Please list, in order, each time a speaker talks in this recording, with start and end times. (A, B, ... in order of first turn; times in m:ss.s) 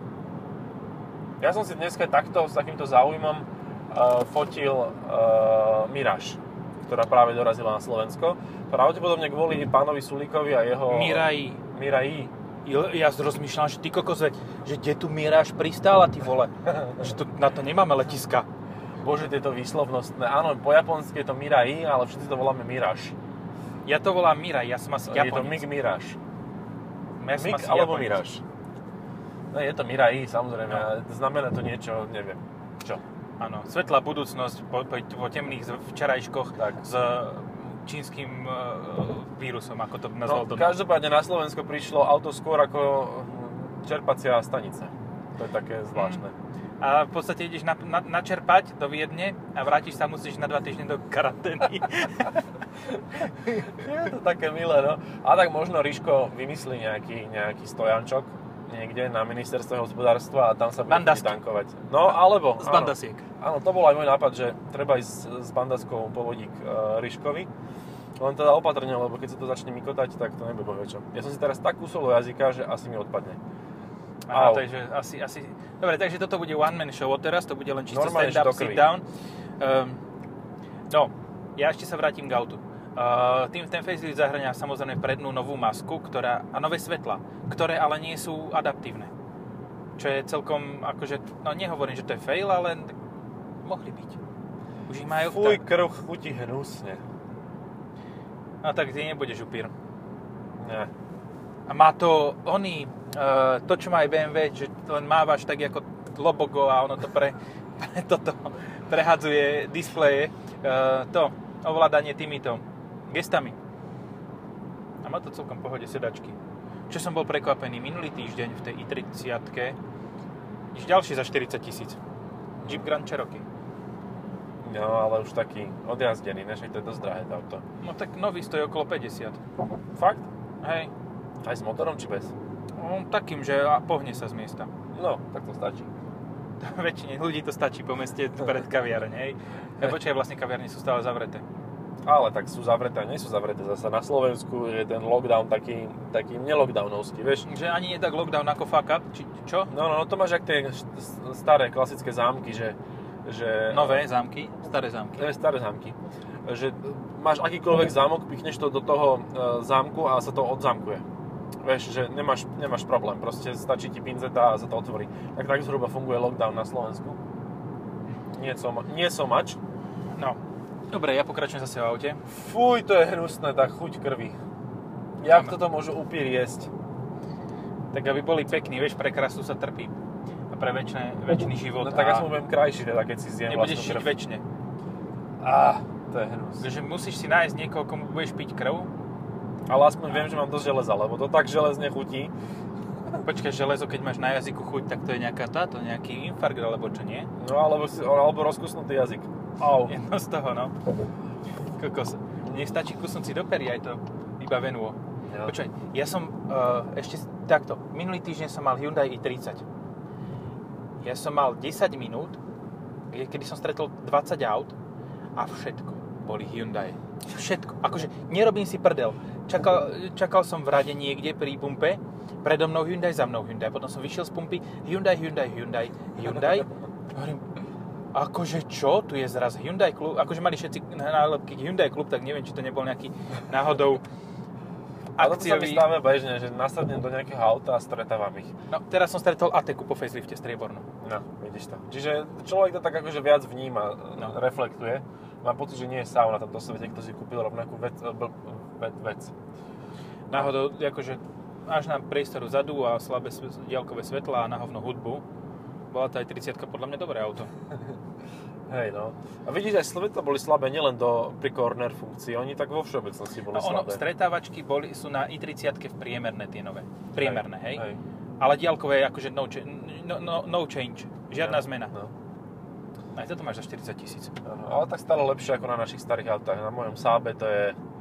0:01.4-0:12.3 A
0:10.9-0:11.6 B
0:12.6-0:18.5 B
0:19.0-0:23.2 A
0:23.8-0:25.7 B
0:25.1-0:26.2 A
0:27.2-0:28.2 B
0:27.4-0:28.4 A
0:29.5-0:33.0 A
0:33.4-0:40.8 B
0:40.2-0:46.3 A
0:45.9-0:46.2 B
0:46.8-0:52.4 B
0:53.4-0:53.7 B
0:53.5-1:07.5 A
1:00.9-1:01.4 B
1:02.1-1:03.2 B
1:08.2-1:13.4 A
1:14.3-1:19.0 B
1:14.3-1:14.6 A
1:17.9-1:18.9 A
1:19.6-1:20.0 B
1:20.9-1:29.1 B
1:30.0-1:32.9 B
1:33.6-1:34.2 B
1:34.9-1:35.6 B
1:35.1-1:37.0 A
1:38.6-1:39.7 B
1:40.6-1:40.9 A
1:41.7-1:53.6 B
1:55.0-1:56.4 B
1:56.9-1:59.8 B
2:00.7-2:02.0 B
2:02.6-2:02.9 A
2:02.6-2:03.4 B
2:04.6-2:07.6 A
2:07.8-2:09.4 B
2:09.9-2:10.3 A
2:10.6-2:10.9 B
2:11.4-2:12.3 A
2:12.8-2:14.7 B
2:14.9-2:15.9 A
2:16.6-2:21.4 B
2:22.0-2:27.5 A
2:27.4-2:29.7 B
2:29.7-2:34.0 A
2:33.7-2:35.3 B
2:35.2-2:41.0 A
2:41.6-2:47.2 A
2:48.3-2:49.6 A
2:50.9-2:52.2 B
2:52.3-2:54.4 A
2:55.2-2:56.7 A
2:55.3-2:55.5 B
2:57.9-3:00.0 B
3:00.5-3:02.3 B
3:01.8-3:04.1 A
3:03.5-3:04.4 B
3:05.4-3:06.7 A
3:06.6-3:08.9 B
3:09.7-3:12.3 A
3:13.2-3:17.3 B
3:17.4-3:19.9 A
3:19.8-3:20.7 B
3:21.8-3:29.6 B
3:25.3-3:25.5 A
3:31.0-3:32.4 B
3:33.1-3:34.7 B
3:35.4-3:47.4 B
3:48.1-3:54.0 B
3:55.2-3:55.9 B
3:55.2-3:58.5 A
3:58.7-4:00.9 B
4:01.0-4:09.3 A
4:10.3-4:15.2 B
4:15.9-4:17.5 B
4:18.7-4:24.0 A
4:23.5-4:27.8 B
4:27.2-4:28.0 A
4:28.4-4:31.9 B
4:31.4-4:32.1 A
4:33.1-4:34.3 B
4:34.4-4:37.8 A